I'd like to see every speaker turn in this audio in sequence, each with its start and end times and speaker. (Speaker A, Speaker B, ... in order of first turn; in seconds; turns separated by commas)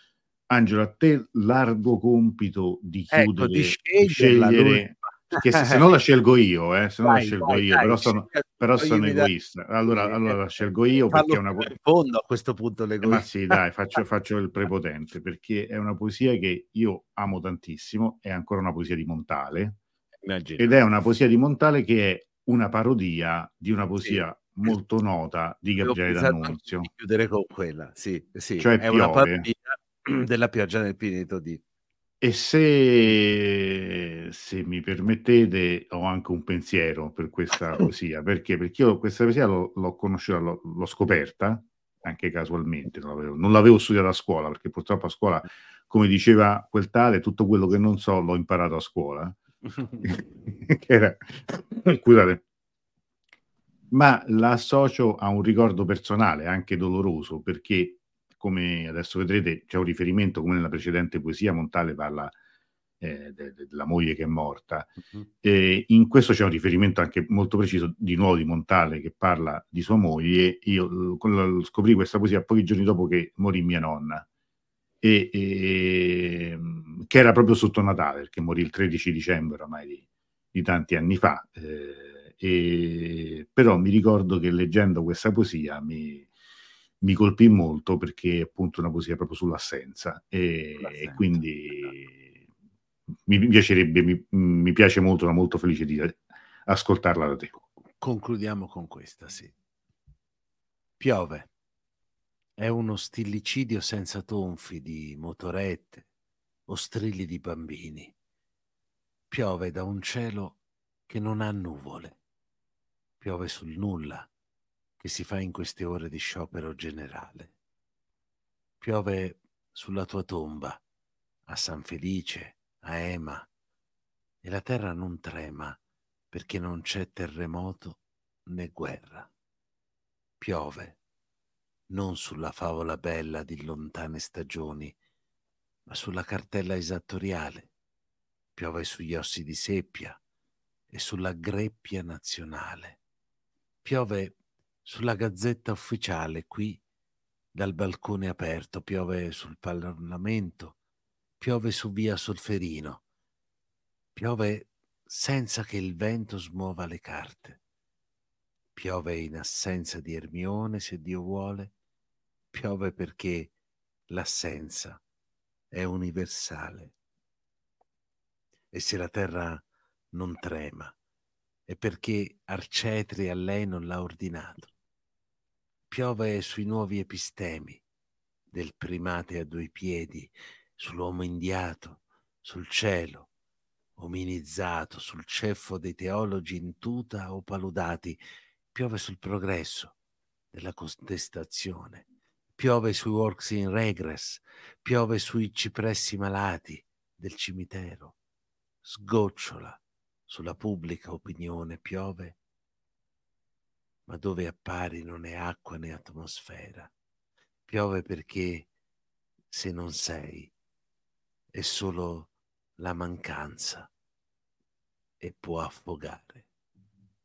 Speaker A: 0.5-11.7, Speaker B: 3.1-5.8, Speaker B: 7.0-9.3, Speaker B: 9.8-13.6, Speaker A: 13.0-19.8, Speaker B: 20.2-20.7, Speaker A: 20.6-26.9, Speaker B: 25.8-31.6, Speaker A: 28.6-29.5, Speaker A: 32.2-49.4, Speaker B: 49.7-50.0, Speaker A: 50.0-52.4, Speaker A: 53.9-62.3, Speaker A: 63.0-74.2, Speaker A: 75.0-80.0, Speaker A: 80.5-86.3, Speaker A: 87.0-92.1, Speaker B: 90.8-91.9, Speaker A: 93.3-97.6, Speaker B: 98.0-99.5, Speaker B: 101.0-101.5, Speaker B: 102.6-106.0, Speaker B: 106.7-108.1, Speaker B: 109.3-110.6, Speaker B: 111.1-112.2, Speaker B: 113.2-114.3, Speaker B: 115.0-117.5, Speaker B: 118.8-120.8, Speaker B: 121.5-123.5, Speaker B: 124.4-125.8, Speaker B: 126.3-129.3, Speaker B: 130.4-130.9, Speaker B: 131.9-134.9, Speaker B: 135.9-137.7, Speaker B: 138.6-140.2, Speaker B: 140.9-143.0, Speaker B: 143.8-146.8, Speaker B: 147.5-150.8, Speaker B: 151.4-153.0, Speaker B: 154.1-157.6, Speaker B: 158.7-161.7, Speaker B: 162.5-163.5, Speaker B: 164.1-165.0, Speaker B: 165.7-166.9, Speaker B: 168.7-170.9, Speaker B: 171.7-174.7, Speaker B: 175.9-177.8, Speaker B: 178.5-183.3, Speaker B: 184.0-188.2, Speaker B: 188.7-189.9, Speaker B: 190.5-192.0, Speaker B: 192.6-198.1, Speaker B: 198.8-202.4, Speaker B: 204.1-206.9, Speaker B: 207.7-208.7, Speaker B: 209.5-210.5, Speaker B: 211.5-213.9, Speaker B: 215.2-216.4